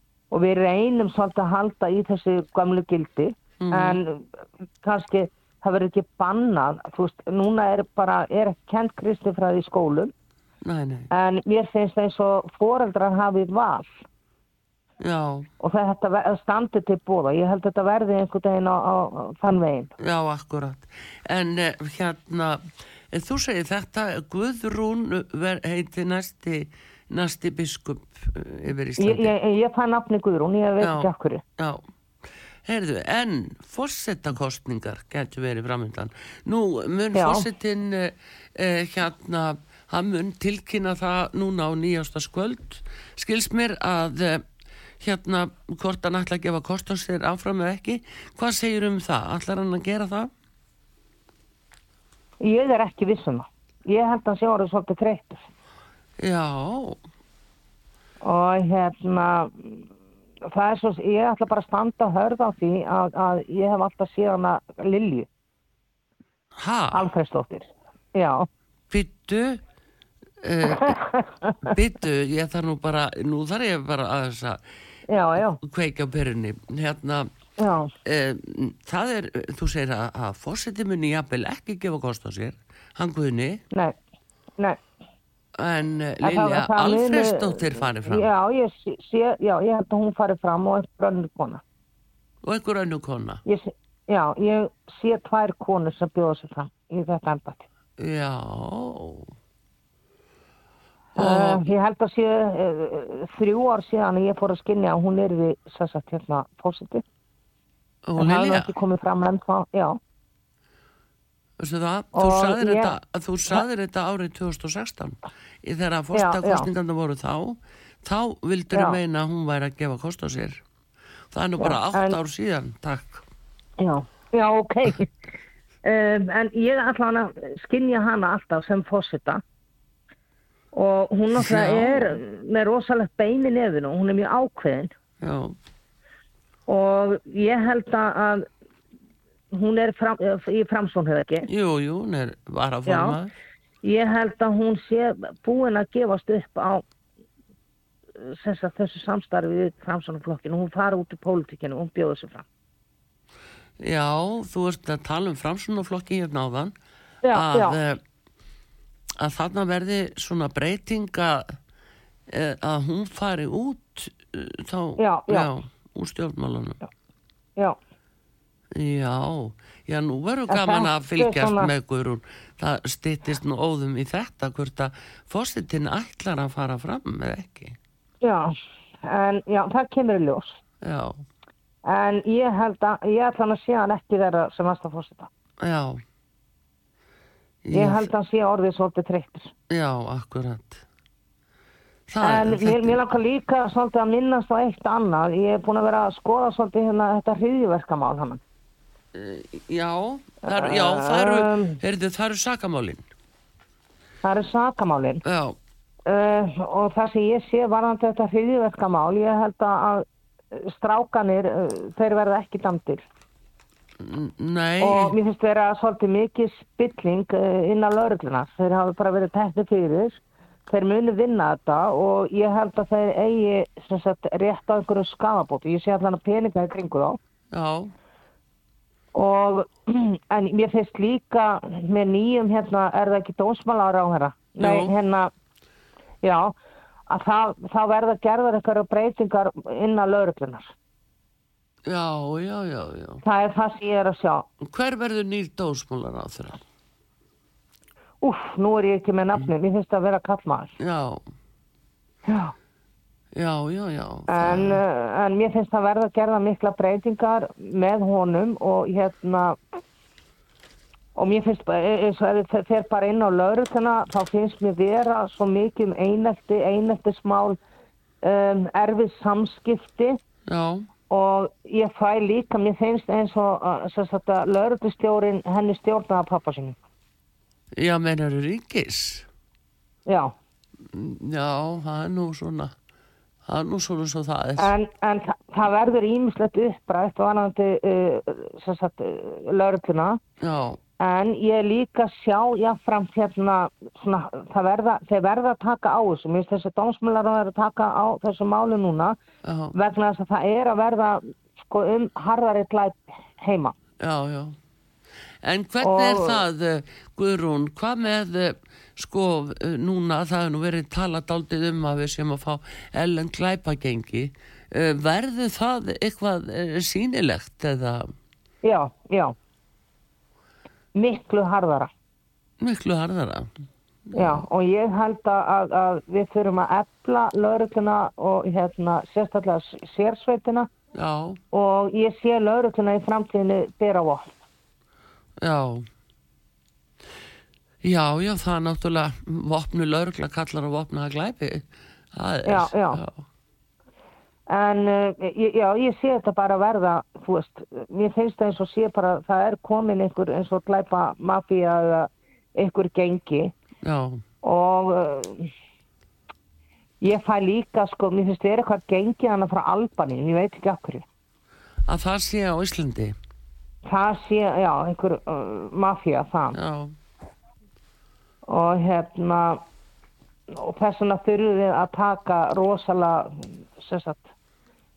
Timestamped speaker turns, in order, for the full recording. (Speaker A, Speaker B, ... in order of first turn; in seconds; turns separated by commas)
Speaker A: 0.3-10.1, Speaker B: 3.6-4.0, Speaker B: 10.6-11.1, Speaker A: 11.1-14.0, Speaker B: 15.0-15.5, Speaker A: 15.6-19.9, Speaker B: 20.0-29.3, Speaker A: 29.0-31.4, Speaker B: 30.8-31.8, Speaker B: 32.6-44.4, Speaker A: 37.1-37.5, Speaker B: 45.0-50.3, Speaker A: 52.4-55.5, Speaker B: 56.2-57.0, Speaker A: 58.2-59.9, Speaker A: 60.4-65.3, Speaker B: 66.5-67.0, Speaker A: 66.9-68.5, Speaker B: 68.9-69.6, Speaker B: 70.4-71.0, Speaker A: 70.6-71.7, Speaker B: 71.6-74.6, Speaker A: 75.1-75.6, Speaker B: 75.3-77.3, Speaker A: 77.6-77.9, Speaker B: 78.0-83.6, Speaker B: 85.6-88.3, Speaker A: 86.2-91.6, Speaker B: 92.4-93.4, Speaker A: 93.4-97.7, Speaker B: 98.0-99.3, Speaker B: 101.2-101.7, Speaker A: 101.2-107.0, Speaker B: 108.0-108.7, Speaker A: 108.2-110.0, Speaker B: 111.6-120.6, Speaker A: 112.1-112.9, Speaker A: 116.1-116.7, Speaker A: 118.7-119.0, Speaker B: 121.3-123.2, Speaker A: 121.6-122.2, Speaker A: 123.8-125.1, Speaker A: 125.8-129.4, Speaker A: 130.7-134.9, Speaker B: 131.3-132.2, Speaker B: 135.2-135.6, Speaker A: 136.7-138.4, Speaker A: 139.5-141.5, Speaker B: 141.5-143.3, Speaker A: 142.8-143.2, Speaker A: 143.8-146.8, Speaker A: 148.2-152.4, Speaker B: 153.8-156.7, Speaker A: 157.2-157.8, Speaker B: 157.3-158.0, Speaker B: 159.2-161.5, Speaker B: 162.3-166.8, Speaker A: 165.0-165.5, Speaker B: 168.7-177.8, Speaker A: 170.5-171.7, Speaker A: 178.2-178.5, Speaker A: 179.0-180.6, Speaker B: 180.8-181.2, Speaker A: 181.8-185.3, Speaker B: 185.6-186.0, Speaker B: 187.6-188.1, Speaker A: 187.7-189.5, Speaker B: 189.7-190.8, Speaker B: 192.1-193.0, Speaker A: 192.2-198.4, Speaker B: 199.1-203.0, Speaker A: 200.4-201.8, Speaker A: 204.2-205.2, Speaker B: 205.2-205.6, Speaker A: 206.1-213.0, Speaker B: 214.0-215.2, Speaker A: 214.8-227.2, Speaker B: 227.5-227.9, Speaker A: 229.1-235.3, Speaker B: 234.6-234.9, Speaker A: 236.2-236.5, Speaker A: 237.1-240.7, Speaker B: 241.9-243.2, Speaker A: 243.2-244.5, Speaker B: 244.6-246.6, Speaker A: 248.2-250.8, Speaker B: 250.8-251.2, Speaker A: 252.3-252.5, Speaker B: 253.3-254.8, Speaker A: 254.3-259.6, Speaker A: 261.1-267.6, Speaker A: 268.2-270.2, Speaker B: 270.5-270.9, Speaker A: 271.1-276.8, Speaker B: 277.8-279.3, Speaker A: 280.1-280.3, Speaker B: 280.8-282.7, Speaker B: 283.4-284.7, Speaker A: 284.6-290.2, Speaker B: 290.4-290.8, Speaker A: 291.0-299.1, Speaker B: 299.4-299.7, Speaker A: 299.7-303.7, Speaker B: 304.0-304.6, Speaker B: 305.4-318.1, Speaker A: 305.8-306.4, Speaker A: 318.6-319.3, Speaker A: 320.9-321.9, Speaker B: 322.6-323.5, Speaker B: 324.1-324.4, Speaker A: 324.1-330.7, Speaker B: 330.9-331.4, Speaker A: 331.5-334.3, Speaker B: 335.4-335.9, Speaker B: 337.8-343.2, Speaker A: 342.4-343.0, Speaker A: 344.5-353.5, Speaker B: 353.8-354.2, Speaker A: 354.4-355.5, Speaker A: 357.0-361.0, Speaker B: 361.9-363.1, Speaker A: 363.9-366.6, Speaker B: 366.5-366.9, Speaker A: 368.5-369.6, Speaker A: 370.5-374.3